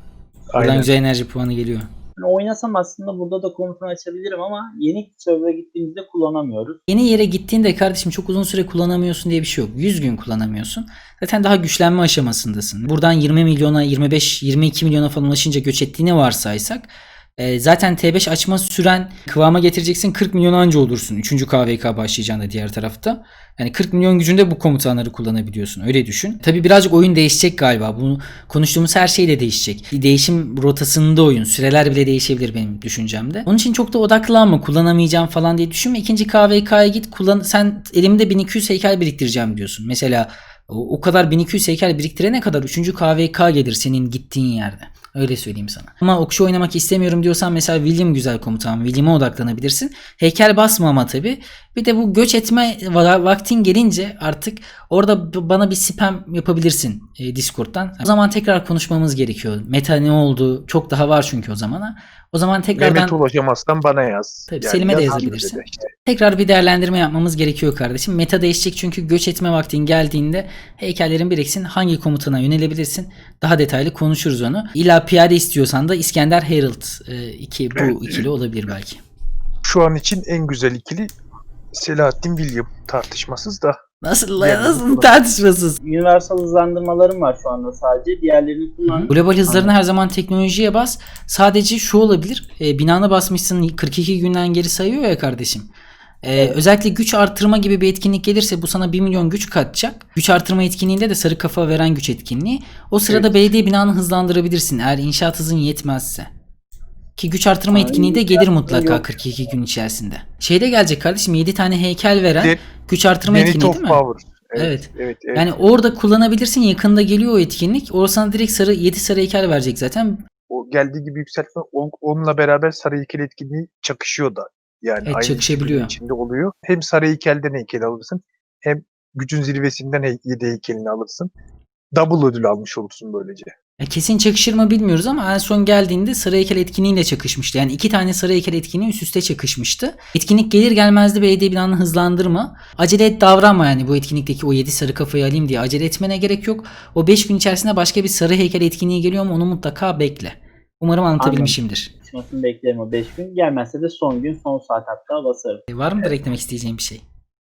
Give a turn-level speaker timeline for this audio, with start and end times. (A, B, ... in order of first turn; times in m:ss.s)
0:00.5-0:00.9 A
0:00.5-0:01.9 B
0:02.2-0:06.8 C
0:06.9-1:03.2 B
1:02.8-1:05.9 A
1:04.5-1:19.0 B
1:17.8-1:18.3 A
1:19.6-1:21.1 A
1:21.7-1:23.8 A
1:24.0-1:25.8 B
1:24.4-1:25.2 A
1:25.8-1:29.7 C
1:28.9-1:35.7 B
1:36.2-1:46.3 B
1:43.1-1:43.4 A
1:47.2-1:54.0 B
1:47.7-1:49.2 C
1:52.4-1:52.6 A
1:53.2-1:55.6 A
1:54.6-2:00.2 B
2:00.5-2:11.3 A
2:05.0-2:05.9 B
2:11.9-2:13.5 A
2:13.8-2:31.9 B
2:31.2-2:36.1 C
2:35.7-2:37.0 B